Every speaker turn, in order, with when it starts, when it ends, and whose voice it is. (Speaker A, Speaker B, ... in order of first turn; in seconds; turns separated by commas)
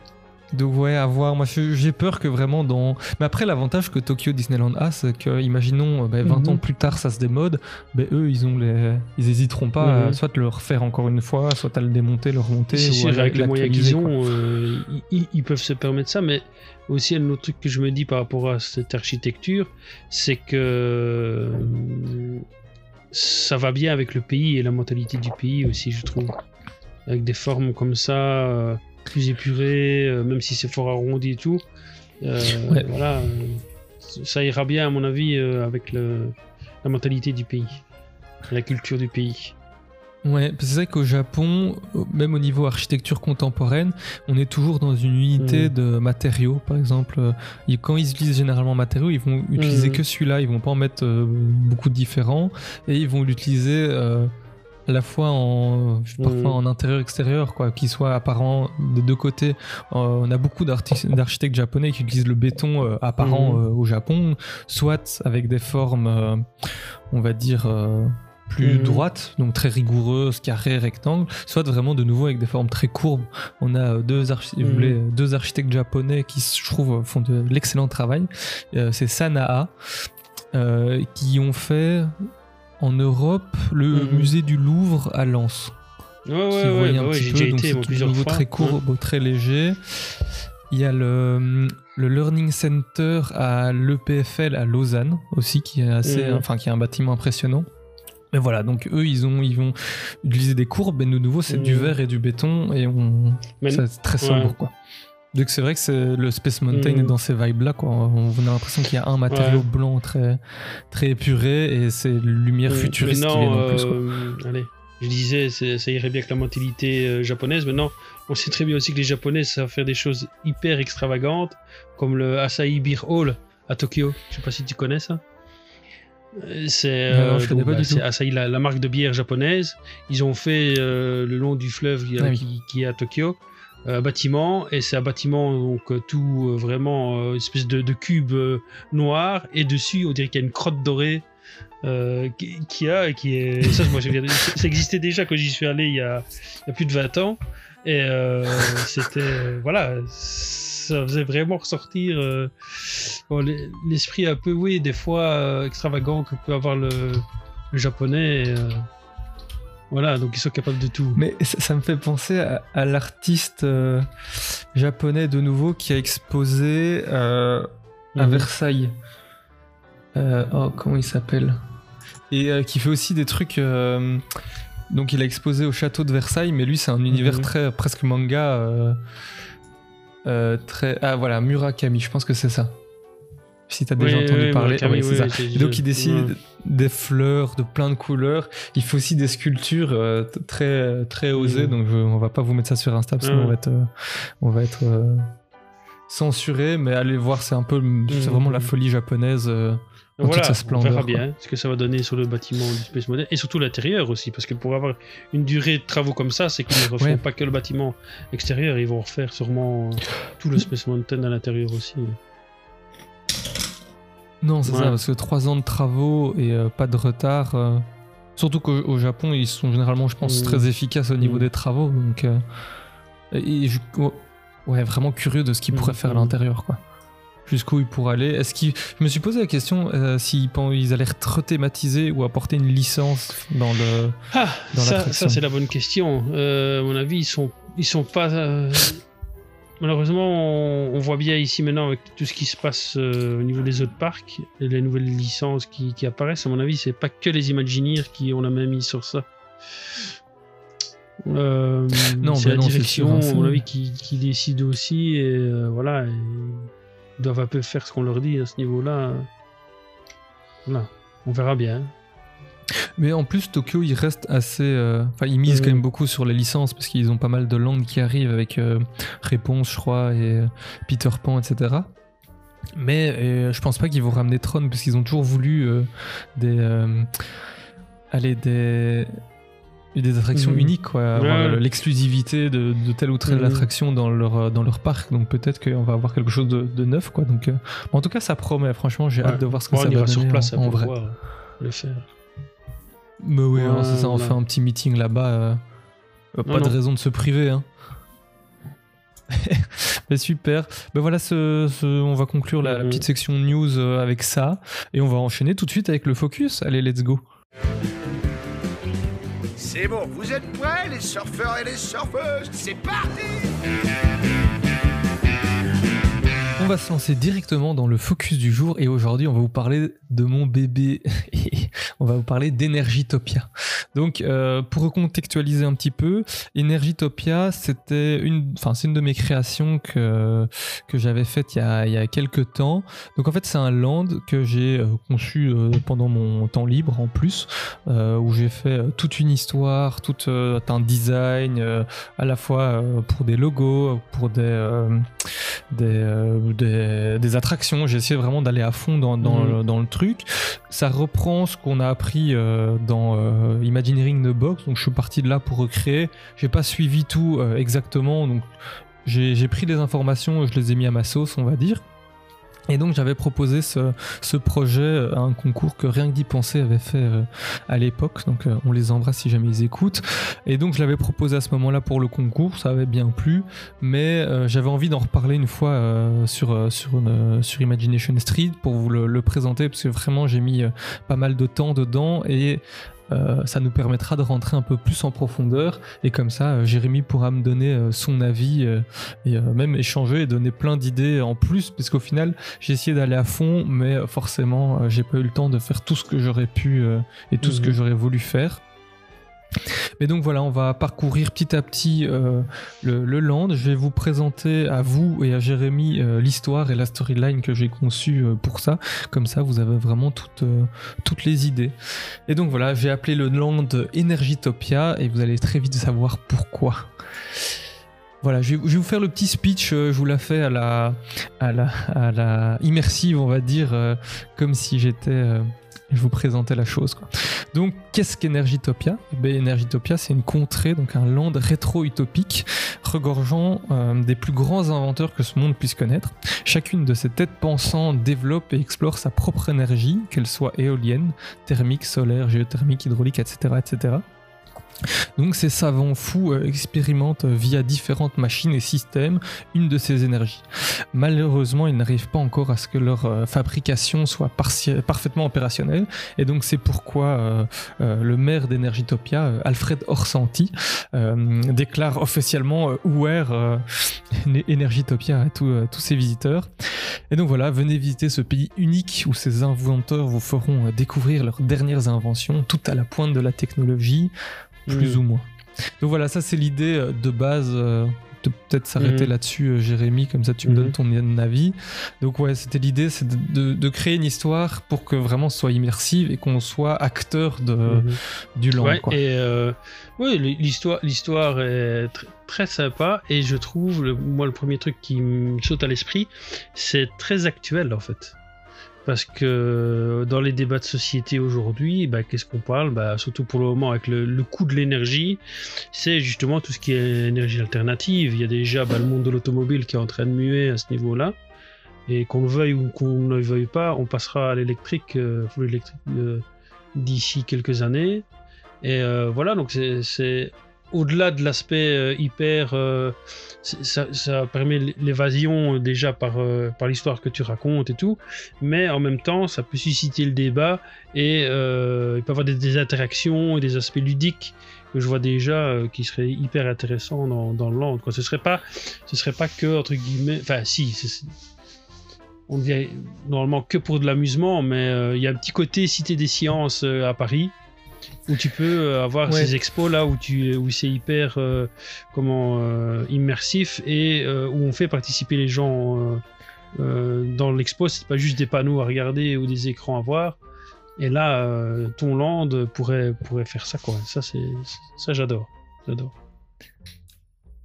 Speaker A: 0.5-14.1, Speaker B: 6.2-6.6, Speaker B: 9.8-10.2, Speaker B: 12.7-22.4, Speaker B: 23.1-26.4, Speaker B: 27.1-31.6, Speaker B: 32.2-37.8, Speaker B: 38.5-39.5, Speaker A: 40.2-54.3, Speaker B: 45.4-45.7, Speaker B: 49.5-50.0, Speaker A: 54.9-66.5, Speaker B: 56.2-56.6, Speaker B: 63.2-63.6, Speaker A: 67.1-79.7, Speaker B: 68.6-69.0, Speaker B: 74.6-75.0, Speaker A: 80.5-82.1, Speaker A: 82.8-85.7, Speaker B: 83.9-84.3, Speaker B: 86.2-88.8, Speaker A: 86.5-89.8, Speaker A: 90.7-97.7, Speaker B: 96.0-96.4, Speaker A: 98.3-104.7, Speaker B: 101.5-101.9, Speaker B: 103.6-104.5, Speaker A: 105.3-114.0, Speaker B: 106.7-107.1, Speaker B: 109.3-109.6, Speaker B: 112.7-125.2, Speaker B: 126.3-141.2, Speaker A: 127.1-128.0, Speaker A: 132.2-132.4, Speaker B: 141.8-158.9, Speaker B: 159.9-161.2, Speaker A: 161.2-164.1, Speaker A: 164.7-168.9, Speaker B: 168.2-168.5, Speaker A: 170.1-171.6, Speaker A: 172.3-174.2, Speaker A: 174.9-179.0, Speaker B: 177.1-177.5, Speaker A: 180.2-182.8, Speaker A: 183.7-195.3, Speaker B: 184.0-186.3, Speaker B: 191.3-191.7, Speaker B: 193.2-193.6, Speaker A: 196.1-201.2, Speaker B: 198.1-198.7, Speaker B: 200.2-212.2, Speaker A: 214.4-222.4, Speaker B: 214.7-214.9, Speaker B: 220.2-220.7, Speaker B: 221.2-221.5, Speaker A: 223.3-226.8, Speaker B: 225.7-226.3, Speaker A: 227.4-235.4, Speaker B: 234.3-239.0, Speaker B: 239.8-249.2, Speaker B: 251.2-259.3, Speaker A: 252.2-253.6, Speaker B: 260.7-261.9, Speaker A: 263.0-271.9, Speaker B: 265.4-265.8, Speaker A: 272.7-277.1, Speaker A: 278.1-279.1, Speaker A: 279.9-290.9, Speaker B: 280.3-281.6, Speaker B: 283.3-283.7, Speaker B: 289.2-292.1, Speaker A: 293.2-295.6, Speaker B: 293.6-294.4, Speaker A: 296.3-297.6, Speaker B: 296.5-296.7, Speaker A: 299.3-307.2, Speaker B: 302.6-303.0, Speaker C: 309.6-313.4, Speaker A: 316.6-358.5, Speaker B: 349.2-349.6, Speaker A: 359.0-361.8, Speaker A: 362.7-398.6, Speaker B: 397.4-397.8, Speaker A: 400.0-411.7, Speaker A: 412.3-416.9, Speaker A: 418.2-444.0, Speaker A: 445.1-474.1, Speaker A: 474.7-475.2, Speaker B: 474.7-475.0, Speaker A: 475.8-489.0, Speaker B: 478.8-479.1, Speaker B: 480.4-480.7, Speaker B: 487.7-488.0, Speaker B: 488.6-498.1, Speaker B: 498.8-505.2, Speaker B: 505.7-511.1, Speaker B: 511.9-518.0, Speaker B: 518.6-541.1, Speaker B: 542.3-547.3, Speaker B: 548.1-556.0, Speaker A: 549.1-549.3, Speaker B: 556.5-560.2, Speaker B: 560.8-566.0